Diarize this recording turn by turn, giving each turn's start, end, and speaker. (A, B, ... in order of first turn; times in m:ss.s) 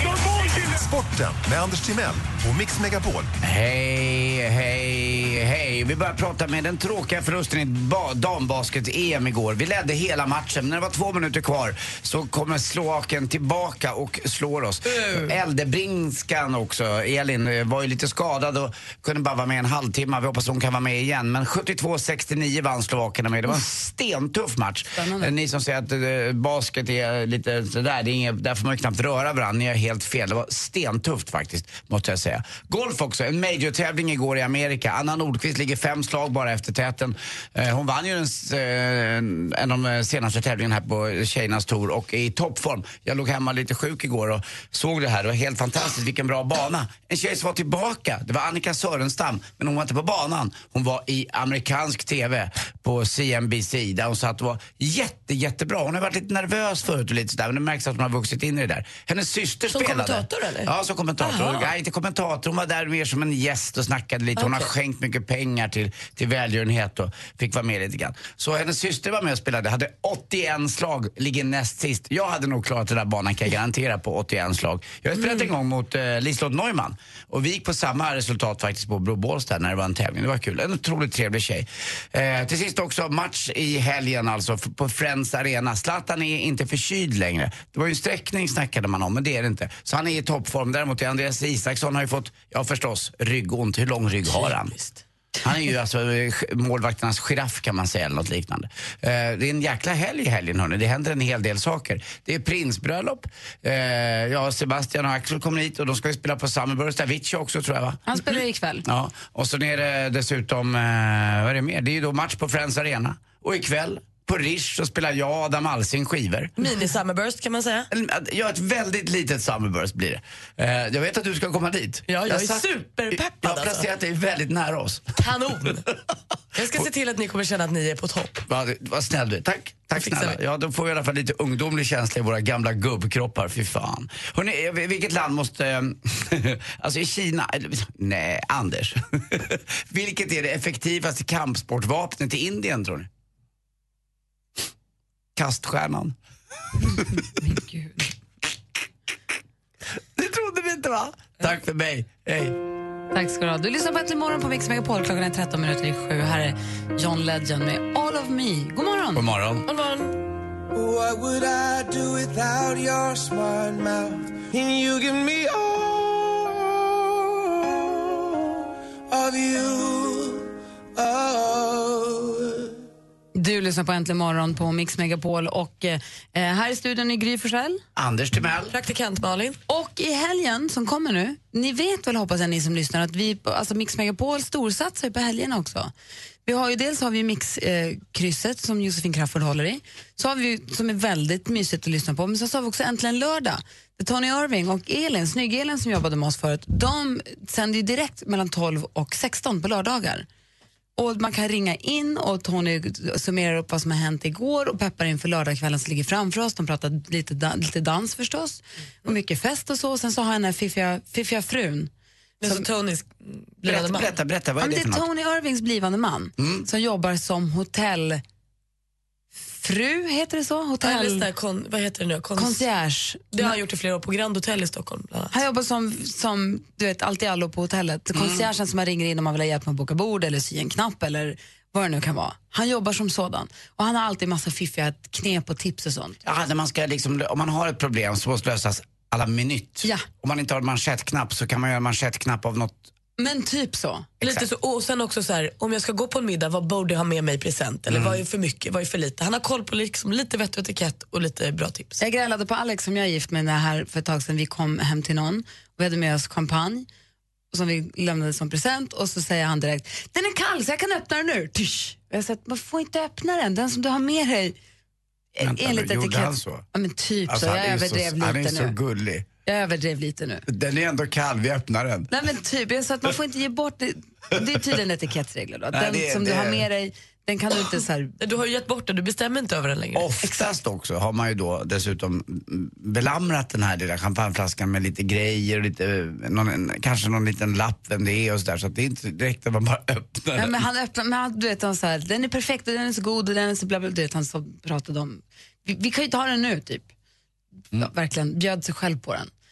0:00.7-0:03.3 A
0:03.4-1:34.7 B
0:24.9-0:25.3 C
0:59.7-1:01.7 D
1:04.4-1:04.7 D
1:34.2-1:35.0 D
1:35.4-1:48.3 B
1:48.1-1:48.8 C
1:48.8-1:56.5 B
1:56.6-1:57.9 D
1:57.9-2:05.1 B
2:02.1-2:03.9 D
2:05.2-2:05.9 D
2:06.5-2:08.4 D
2:08.5-2:23.1 B
2:10.0-2:10.4 D
2:25.4-2:26.1 B
2:27.4-2:27.9 C
2:30.2-2:32.6 B
2:33.1-2:39.2 C
2:39.1-2:39.6 B
2:39.7-2:40.2 D
2:40.7-2:48.1 E
2:49.1-2:52.7 E
2:53.3-2:57.8 C
2:58.0-2:58.7 B
2:58.7-2:59.6 D
2:59.7-3:05.9 C
3:06.4-3:20.3 C
3:21.0-3:31.9 C
3:32.4-3:34.1 D
3:33.6-3:35.0 B
3:34.6-3:38.2 C
3:36.4-3:36.6 B
3:39.5-3:41.3 C
3:40.8-3:42.6 D
3:42.4-3:43.6 C
3:43.3-3:45.4 D
3:45.3-3:56.2 C
3:48.1-3:48.5 B
3:56.2-4:02.9 B
4:03.2-4:04.2 C
4:04.2-4:04.4 B
4:04.2-4:12.0 D
4:07.9-4:08.2 B
4:12.0-4:16.9 C
4:17.5-4:24.5 C
4:25.3-4:28.7 C
4:25.4-4:26.6 B
4:27.3-4:29.3 B
4:29.4-4:30.4 C
4:30.5-4:32.1 B
4:32.1-4:38.1 C
4:35.7-4:36.6 B
4:38.2-4:40.1 D
4:39.9-4:50.6 B
4:50.4-4:56.9 C
4:57.7-4:59.3 C